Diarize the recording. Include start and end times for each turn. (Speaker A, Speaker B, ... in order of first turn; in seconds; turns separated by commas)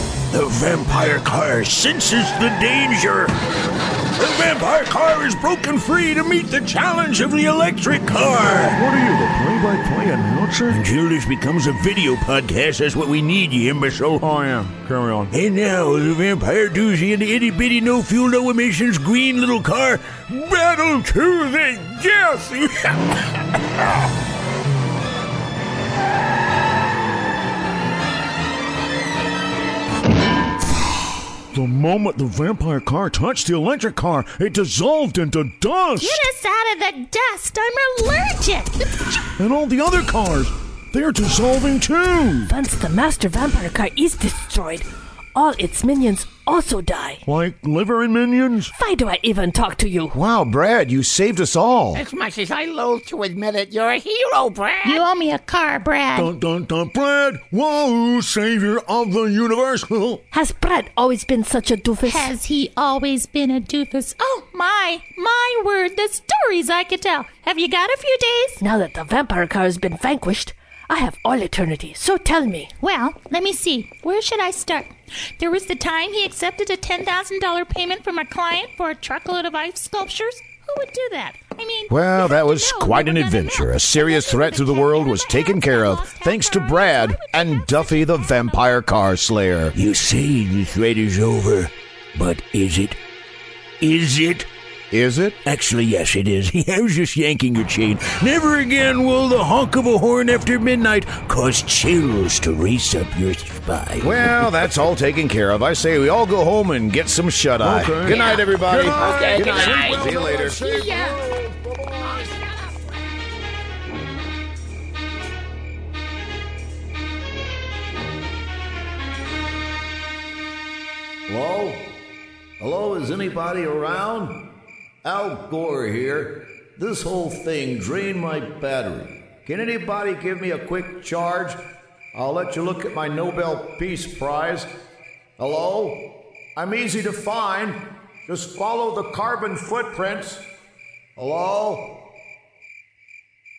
Speaker A: 0.3-3.4, Speaker A: 4.2-8.8, Speaker B: 8.7-10.8, Speaker A: 10.7-14.2, Speaker B: 14.2-15.3, Speaker C: 14.6-15.2, Speaker A: 15.3-23.1, Speaker B: 31.5-36.2, Speaker D: 36.0-38.9, Speaker B: 39.4-42.5, Speaker E: 42.5-47.2, Speaker B: 47.2-48.7, Speaker E: 48.7-50.1, Speaker C: 50.1-52.0, Speaker F: 51.9-55.0, Speaker D: 54.8-56.3, Speaker B: 56.1-60.2, Speaker E: 60.3-62.3, Speaker D: 62.0-68.6, Speaker E: 68.6-72.7, Speaker D: 72.8-88.8, Speaker C: 81.9-89.7, Speaker A: 89.7-93.0, Speaker A: 93.8-94.5, Speaker C: 94.9-95.4, Speaker A: 95.4-104.5, Speaker C: 104.0-110.7, Speaker B: 107.6-112.3, Speaker F: 108.0-111.3, Speaker F: 112.0-113.1, Speaker C: 121.3-121.9, Speaker C: 122.6-124.4, Speaker C: 125.0-131.6, Speaker C: 132.1-134.7, Speaker C: 135.4-140.4, Speaker C: 141.2-142.0